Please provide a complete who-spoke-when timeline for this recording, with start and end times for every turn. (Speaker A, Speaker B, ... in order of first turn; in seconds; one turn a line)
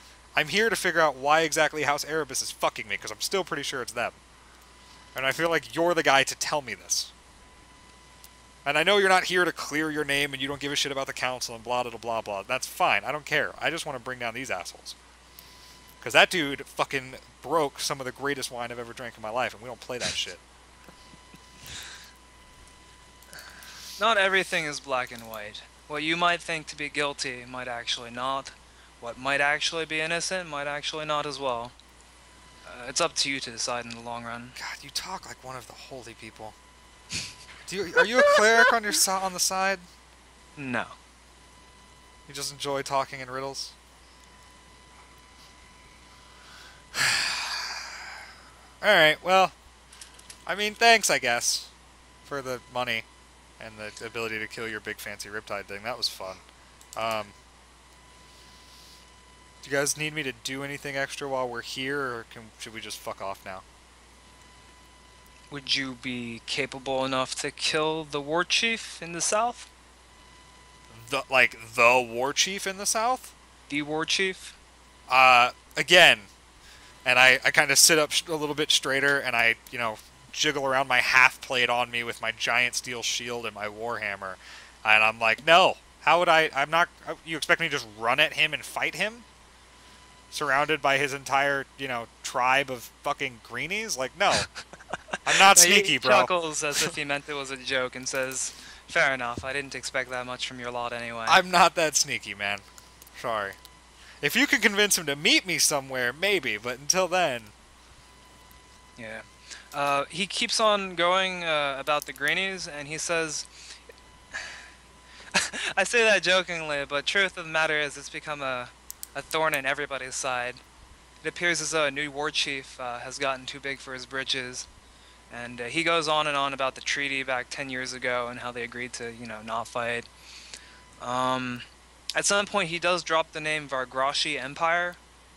Speaker A: 0.3-4.2
Speaker A: 5.2-7.1
Speaker A: 8.7-15.0
Speaker A: 16.0-20.4
Speaker B: 24.0-31.7
Speaker B: 32.6-34.6
Speaker A: 34.6-36.5
Speaker A: 37.6-39.9
Speaker B: 40.6-41.0
Speaker A: 42.3-43.8
Speaker A: 47.0-47.6
Speaker A: 48.8-49.6
Speaker A: 50.5-51.7
Speaker A: 52.3-53.1
Speaker A: 53.6-56.4
Speaker A: 57.0-57.4
Speaker A: 59.6-63.6
Speaker B: 65.5-69.7
Speaker A: 70.9-73.3
Speaker B: 73.7-74.5
Speaker A: 75.1-76.3
Speaker A: 77.0-89.2
Speaker A: 90.3-94.5
Speaker A: 95.3-96.9
Speaker B: 95.5-101.4
Speaker A: 101.3-102.7
Speaker A: 103.2-103.6
Speaker A: 104.2-107.5
Speaker B: 109.0-113.8
Speaker B: 114.3-114.6
Speaker B: 115.3-120.6
Speaker B: 121.2-124.7
Speaker B: 125.3-130.1
Speaker B: 131.0-135.0